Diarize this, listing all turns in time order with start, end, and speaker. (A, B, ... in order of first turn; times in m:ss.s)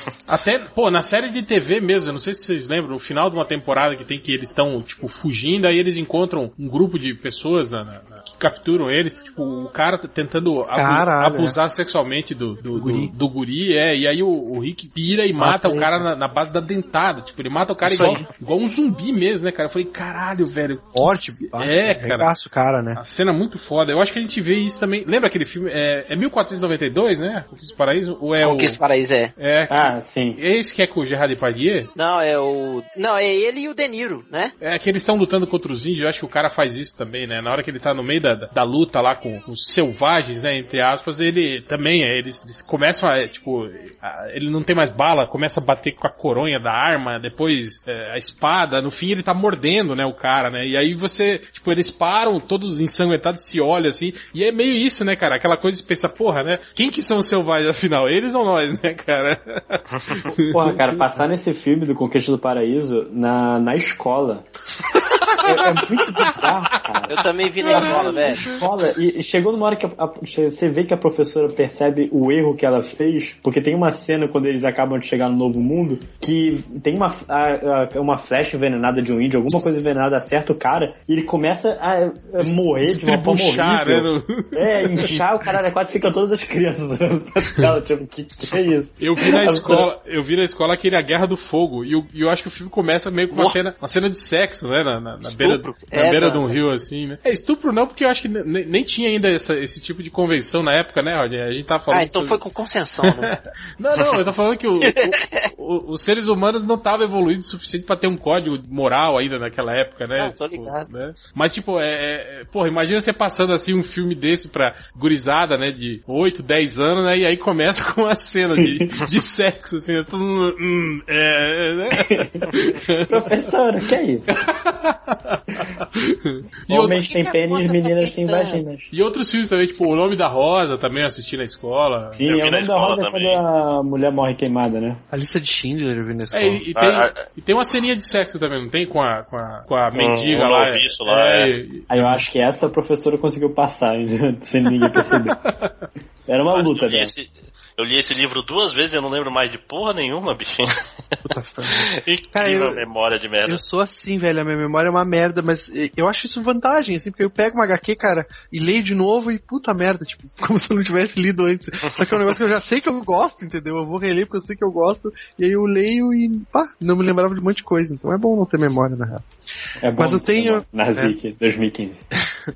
0:00.3-0:22.3 A
0:10.7-0:11.6 B
0:12.8-0:13.1 B
0:15.4-0:16.0 B
0:17.8-0:18.3 B
0:20.9-0:23.0 B
0:22.9-0:28.8 A
0:28.4-0:29.3 C
0:29.4-0:31.9 A
0:29.7-0:30.4 D
0:32.0-0:34.5 C
0:34.6-1:01.0 A
1:00.5-1:04.4 D
1:05.2-1:06.5 A
1:05.4-1:29.9 D
1:07.1-1:08.5 C
1:07.8-1:08.1 A
1:07.8-1:08.1 B
1:22.4-1:25.2 A
1:29.0-1:42.4 A
1:33.3-1:33.6 C
1:35.4-1:36.5 C
1:41.9-1:43.3 C
1:43.0-2:03.3 A
1:44.8-1:45.5 C
1:50.2-1:50.8 C
2:02.0-2:04.4 D
2:04.3-2:07.0 A
2:06.7-2:08.9 D
2:06.9-2:08.6 C
2:08.9-2:12.3 A
2:12.1-2:15.0 D
2:12.2-2:13.4 E
2:15.1-2:16.6 B
2:16.3-2:22.2 A
2:16.8-2:17.3 E
2:19.9-2:21.5 E
2:21.9-2:25.4 D
2:24.8-2:25.9 A
2:26.3-2:27.1 D
2:26.5-2:30.8 E
2:31.2-2:32.8 B
2:31.8-2:33.6 E
2:33.4-2:49.2 B
2:49.8-2:52.0 D
2:50.0-2:51.2 B